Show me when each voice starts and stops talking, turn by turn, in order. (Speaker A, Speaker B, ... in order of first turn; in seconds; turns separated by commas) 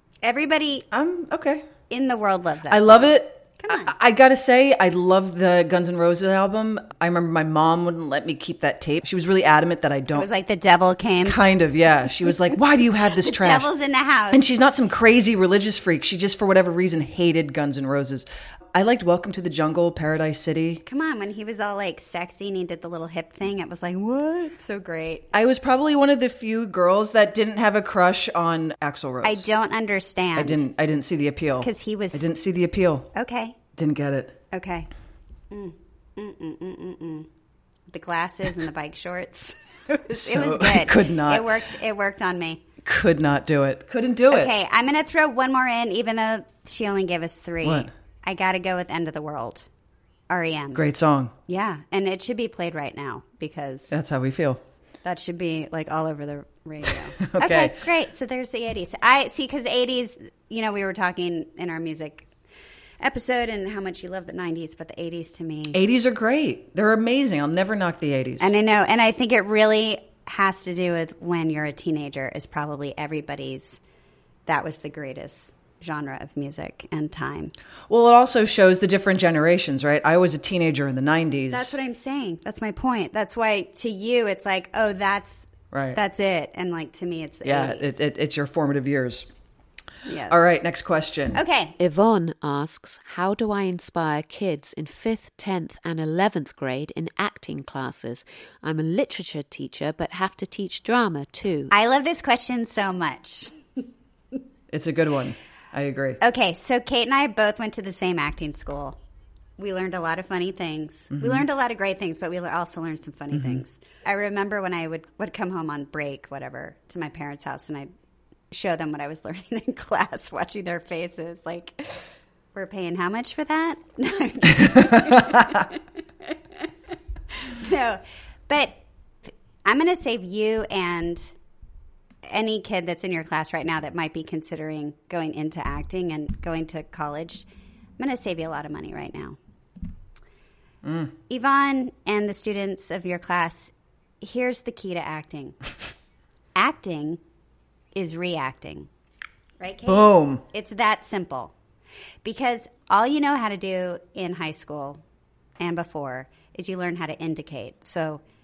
Speaker A: 0.2-0.9, Speaker B: 0.9-1.7, Speaker A: 1.9-3.9, Speaker B: 2.7-10.3, Speaker A: 10.1-11.4, Speaker B: 11.2-13.7, Speaker A: 13.2-14.4, Speaker B: 14.3-20.8, Speaker A: 20.9-25.3, Speaker B: 25.3-29.5, Speaker A: 29.2-30.6, Speaker B: 30.4-33.1, Speaker A: 31.6-32.2, Speaker A: 33.1-33.6, Speaker B: 33.8-34.4, Speaker A: 34.5-34.9, Speaker A: 35.5-37.3, Speaker A: 37.9-42.6, Speaker B: 40.1-41.5, Speaker B: 42.8-44.5, Speaker A: 44.3-49.7, Speaker B: 47.6-47.9, Speaker A: 50.3-50.9, Speaker B: 50.7-51.3, Speaker A: 51.5-53.9, Speaker B: 53.9-54.6, Speaker A: 55.0-62.3, Speaker B: 57.2-57.8, Speaker A: 63.0-65.8, Speaker B: 65.7-68.5, Speaker A: 68.4-73.8, Speaker A: 74.5-77.5, Speaker B: 77.9-81.8, Speaker A: 81.5-85.4, Speaker B: 85.7-86.0, Speaker A: 85.9-88.0, Speaker B: 87.5-89.3, Speaker A: 90.1-90.4, Speaker B: 90.3-91.4, Speaker A: 91.3-91.8, Speaker C: 91.8-101.7, Speaker A: 101.7-103.6, Speaker B: 104.7-106.2, Speaker A: 106.2-109.0, Speaker A: 109.6-117.9, Speaker B: 111.1-111.4, Speaker B: 113.3-113.6, Speaker A: 118.5-121.9, Speaker A: 122.5-126.4, Speaker B: 125.1-125.4, Speaker A: 127.4-128.8, Speaker A: 129.7-131.3, Speaker A: 132.3-137.5, Speaker A: 138.0-139.4, Speaker B: 140.8-141.1, Speaker A: 141.3-145.6, Speaker A: 146.6-147.2, Speaker A: 147.9-148.9, Speaker A: 149.6-151.5, Speaker B: 149.9-150.4, Speaker A: 152.2-155.0, Speaker A: 155.6-158.2